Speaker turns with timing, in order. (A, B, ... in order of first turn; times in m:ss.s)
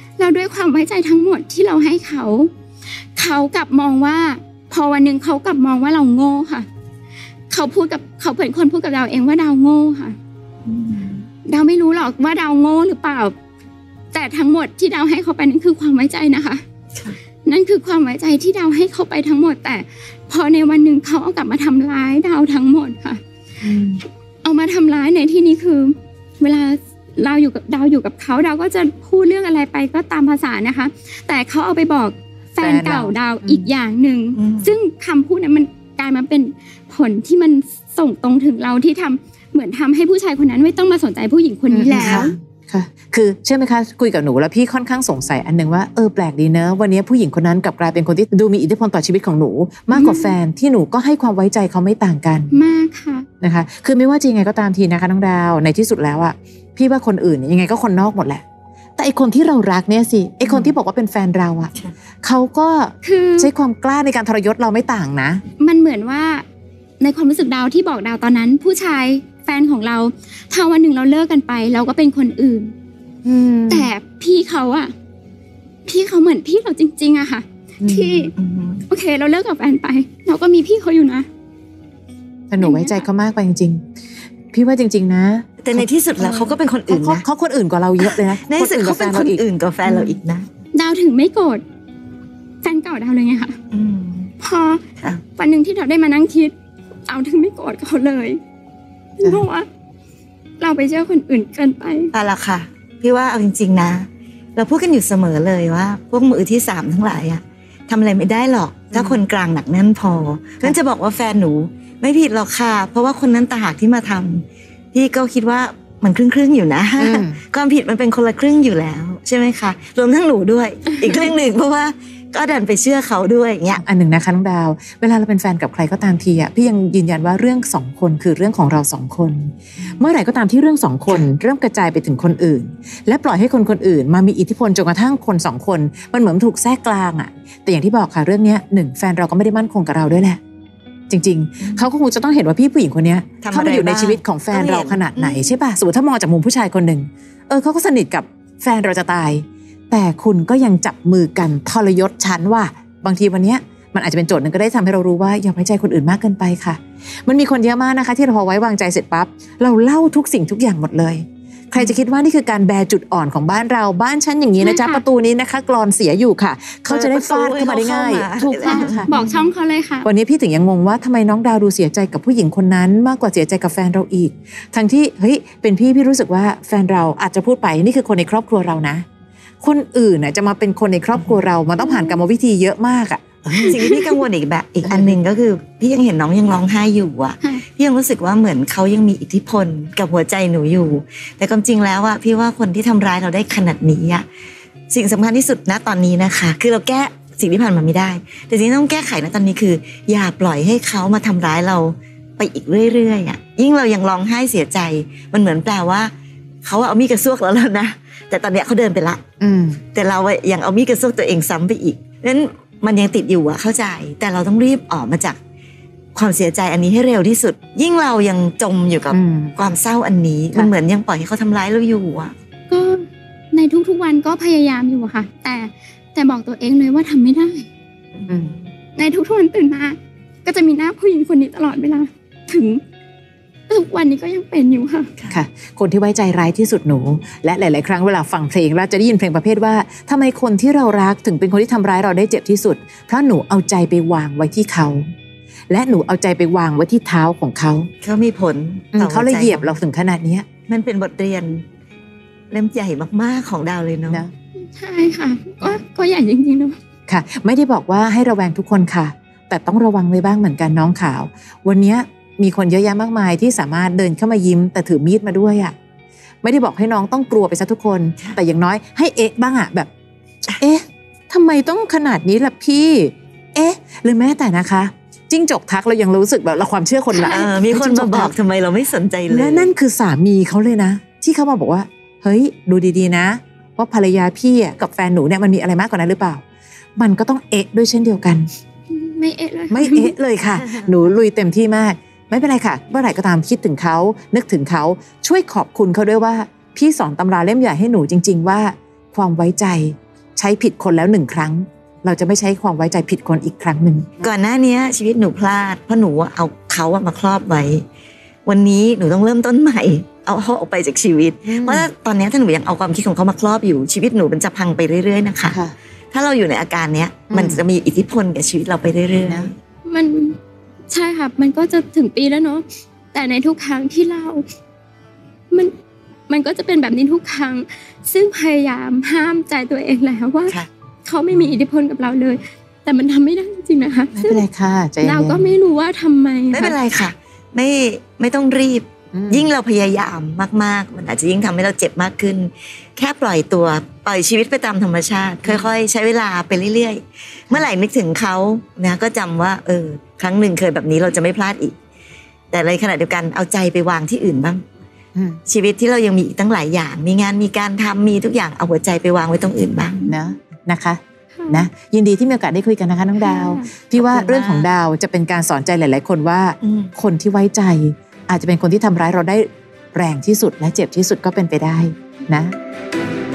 0:00.2-0:02.5 A
0:03.2-0:06.7 A
0:07.5-0:10.2 A
0:10.7-0:11.2 B
0:11.4-0:13.3 A
0:14.1-0:16.6 A
0:17.4-0:23.2 A
0:23.6-0:24.0 C
0:24.4-0:42.4 A
0:32.6-0:33.7 C
0:34.4-0:34.8 B
0:41.7-0:52.5 C
0:49.9-0:50.4 A
0:52.5-0:53.3 A
0:53.4-0:58.4 C
0:59.0-1:05.4 C
1:03.0-1:03.5 A
1:05.6-1:06.4 A
1:07.0-1:12.7 A
1:13.2-1:13.9 C
1:13.7-1:14.9 A
1:15.9-1:18.3 A
1:17.8-1:18.3 C
1:18.4-1:18.8 B
1:18.9-1:21.3 A
1:22.5-1:23.9 C
1:22.6-1:23.0 A
1:24.5-1:30.2 C
1:25.6-1:27.2 B
1:28.0-1:30.5 B
1:30.7-1:31.6 A
1:32.6-1:33.6 A
1:33.7-1:34.3 B
1:34.4-1:34.8 A
1:35.4-1:36.5 A
1:37.1-1:38.4 A
1:39.2-1:39.7 A
1:40.6-1:42.1 A
1:42.1-2:03.8 B
1:48.9-1:49.2 C
1:57.0-1:57.4 C
2:03.7-2:20.4 C
2:21.1-2:49.1 C
2:23.4-2:25.6 B
2:44.6-2:45.0 A
2:46.9-2:49.3 B
2:48.6-2:50.1 A
2:50.0-2:59.0 C
2:59.6-3:03.8 C
3:01.8-3:02.2 A
3:03.6-3:14.2 B
3:04.8-3:05.2 C
3:14.9-3:26.1 B
3:26.6-3:29.2 B
3:29.4-3:29.8 C
3:29.9-3:35.4 B
3:36.2-3:42.3 B
3:39.1-3:39.6 C
3:42.7-3:47.7 A
3:48.3-3:48.6 C
3:49.0-3:52.8 A
3:53.7-3:55.1 A
3:55.3-4:05.0 C
4:05.7-4:07.9 C
4:08.0-4:09.8 B
4:09.0-4:10.5 C
4:10.7-4:11.6 B
4:12.5-4:14.2 B
4:14.7-4:16.8 A
4:17.1-4:25.8 C
4:26.4-4:29.9 C
4:30.6-4:38.3 C
4:37.2-4:39.7 B
4:39.3-4:46.4 C
4:47.0-4:48.5 C
4:48.9-4:50.2 A
4:49.7-5:04.2 C
5:04.2-5:07.8 B
5:08.5-5:15.6 B
5:11.4-5:11.9 C
5:15.5-5:15.7 C
5:16.1-5:19.6 B
5:17.3-5:17.6 C
5:19.2-5:19.5 C
5:19.9-5:20.4 A
5:20.9-5:24.4 A
5:26.3-5:34.4 A
5:34.2-5:35.4 C
5:35.0-5:36.8 A
5:36.5-5:51.8 B
5:39.1-5:39.5 C
5:52.5-5:54.6 B
5:55.2-5:55.4 C
5:55.5-6:00.1 B
6:00.1-6:12.5 C
6:01.4-6:01.7 A
6:03.2-6:03.7 A
6:04.0-6:04.7 B
6:06.6-6:06.9 B